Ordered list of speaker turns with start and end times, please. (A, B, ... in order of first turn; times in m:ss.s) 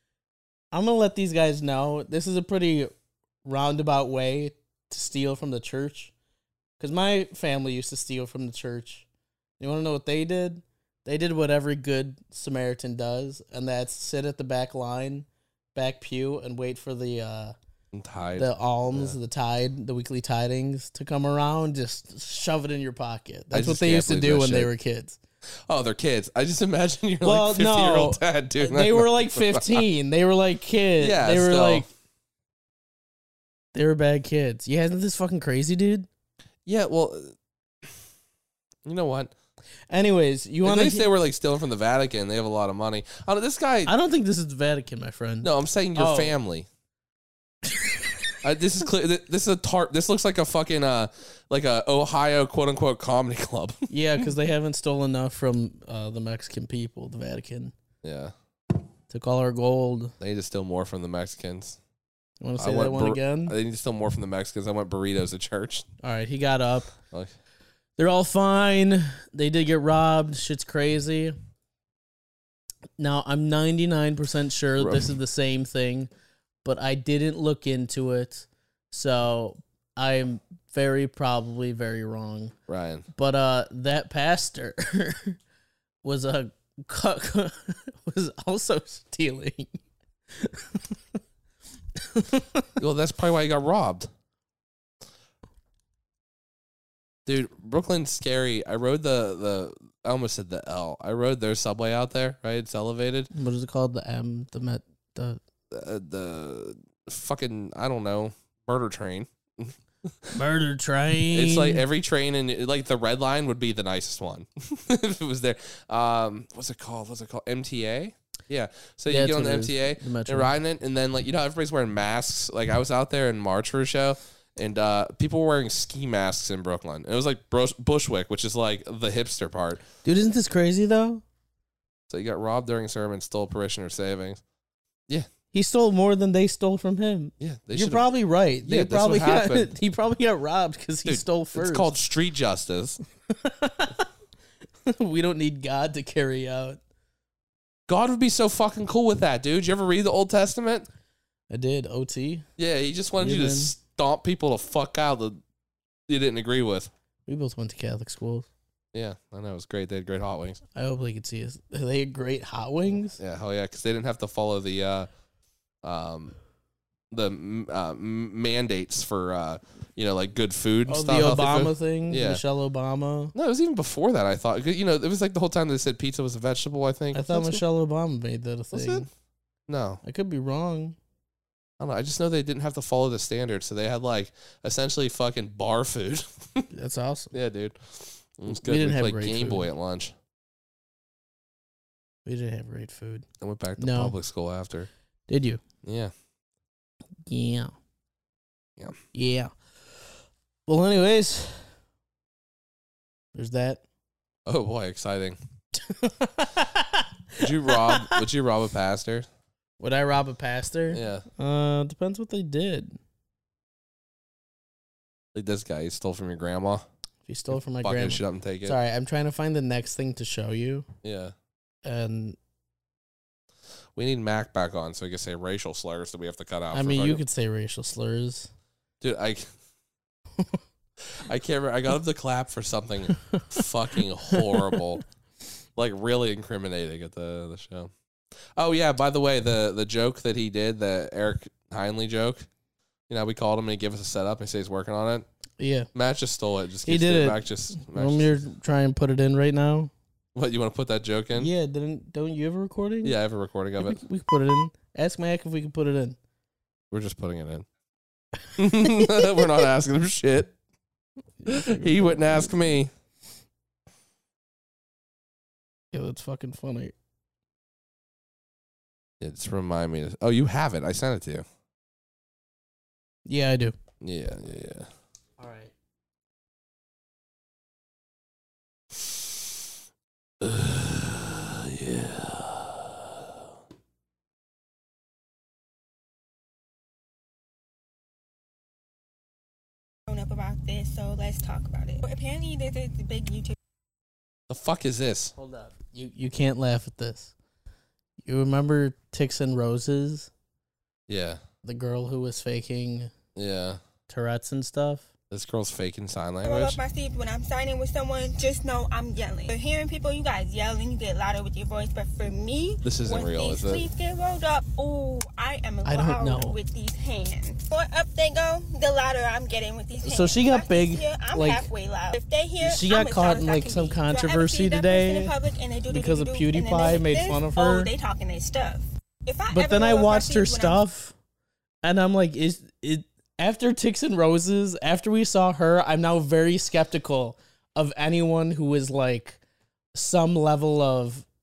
0:00.7-0:02.9 A
0:03.4-0:06.1 A
0:06.8-0:09.0 A
0:09.6-0:17.5 A
0:17.9-0:19.2 B
0:18.4-0:25.2 A
0:23.5-0:24.7 B
0:25.7-0:29.8 B
0:27.2-0:31.8 A
0:31.0-0:31.9 B
0:33.7-0:36.1 A
0:36.6-0:37.3 B
0:38.8-0:39.3 B
0:39.9-0:41.0 A
0:40.6-0:43.9 B
0:43.9-0:46.4 A
0:45.4-0:46.7 B
0:48.4-0:53.8 B
0:53.9-0:57.7 A
0:58.0-0:58.3 B
0:59.1-1:00.1 A
1:00.2-1:01.8 B
1:02.4-1:03.6 A
1:02.6-1:05.9 B
1:06.0-1:06.9 A
1:08.0-1:11.4 A
1:13.0-1:16.1 A
1:14.8-1:15.1 B
1:16.6-1:22.5 A
1:22.7-1:23.0 B
1:23.1-1:25.4 A
1:26.0-1:29.7 A
1:30.3-1:31.0 A
1:32.1-1:32.6 A
1:32.8-1:34.1 B
1:37.2-1:43.3 B
1:43.3-1:45.4 A
1:45.7-1:50.1 B
1:50.3-1:51.8 A
1:51.3-2:09.8 B
1:59.1-2:00.5 A
2:10.0-2:11.2 A
2:12.1-2:14.4 B
2:15.5-2:21.9 A
2:17.4-2:18.1 B
2:18.6-2:19.7 B
2:21.0-2:23.0 B
2:23.3-2:24.0 A
2:24.8-2:26.8 A
2:27.9-2:30.9 B
2:31.5-2:32.4 A
2:32.6-2:35.4 B
2:33.2-2:33.7 A
2:36.1-2:36.9 B
2:37.3-2:38.5 A
2:38.9-2:40.6 B
2:40.7-2:43.2 A
2:43.2-2:45.1 B
2:45.8-2:46.3 B
2:47.1-2:52.4 B
2:50.9-2:53.3 A
2:53.3-2:57.6 B
2:57.1-2:59.1 A
2:58.7-2:59.1 B
2:59.7-3:00.0 B
3:00.0-3:01.0 A
3:01.8-3:06.6 B
3:06.7-3:07.3 A
3:07.3-3:10.1 B
3:08.5-3:09.7 A
3:12.2-3:13.2 A
3:13.4-3:14.9 B
3:13.8-3:14.1 A
3:15.3-3:15.6 A
3:15.8-3:16.1 B
3:17.2-3:17.7 A
3:19.1-3:19.5 A
3:20.7-3:21.6 A
3:23.3-3:23.8 A
3:24.4-3:25.4 B
3:25.8-3:28.2 A
3:27.4-3:29.3 B
3:29.8-3:33.0 A
3:30.9-3:31.2 B
3:35.3-3:36.8 B
3:37.3-3:40.8 A
3:37.8-3:38.8 B
3:41.0-3:41.3 B
3:41.8-3:42.4 A
3:43.9-3:47.2 B
3:46.7-3:48.5 A
3:49.0-3:49.5 B
3:51.2-3:55.0 B
3:55.8-3:57.9 B
3:58.6-4:02.4 B
4:03.1-4:05.2 B
4:05.6-4:05.9 A
4:05.9-4:08.4 B
4:06.8-4:09.9 A
4:10.3-4:11.5 B
4:11.3-4:13.1 A
4:13.0-4:14.0 B
4:13.8-4:16.2 A
4:16.9-4:17.6 B
4:18.6-4:20.5 B
4:21.4-4:22.5 A
4:21.5-4:22.9 B
4:25.9-4:26.9 A
4:29.2-4:31.4 B
4:33.2-4:33.8 A
4:34.0-4:34.9 B
4:35.4-4:35.7 A
4:40.4-4:43.0 B
4:50.1-4:53.5 C
4:54.5-4:55.3 B
4:55.4-4:57.3 A
4:58.2-5:00.3 A
5:01.1-5:01.4 B
5:01.6-5:03.1 A
5:03.4-5:03.8 B
5:04.1-5:05.0 A
5:05.3-5:06.8 B
5:06.4-5:30.8 C
5:12.8-5:13.8 B
5:15.8-5:16.6 A
5:20.0-5:21.7 A
5:22.6-5:25.3 A
5:25.9-5:27.9 A
5:29.5-5:31.1 A
5:31.8-5:39.4 A
5:39.9-5:41.2 A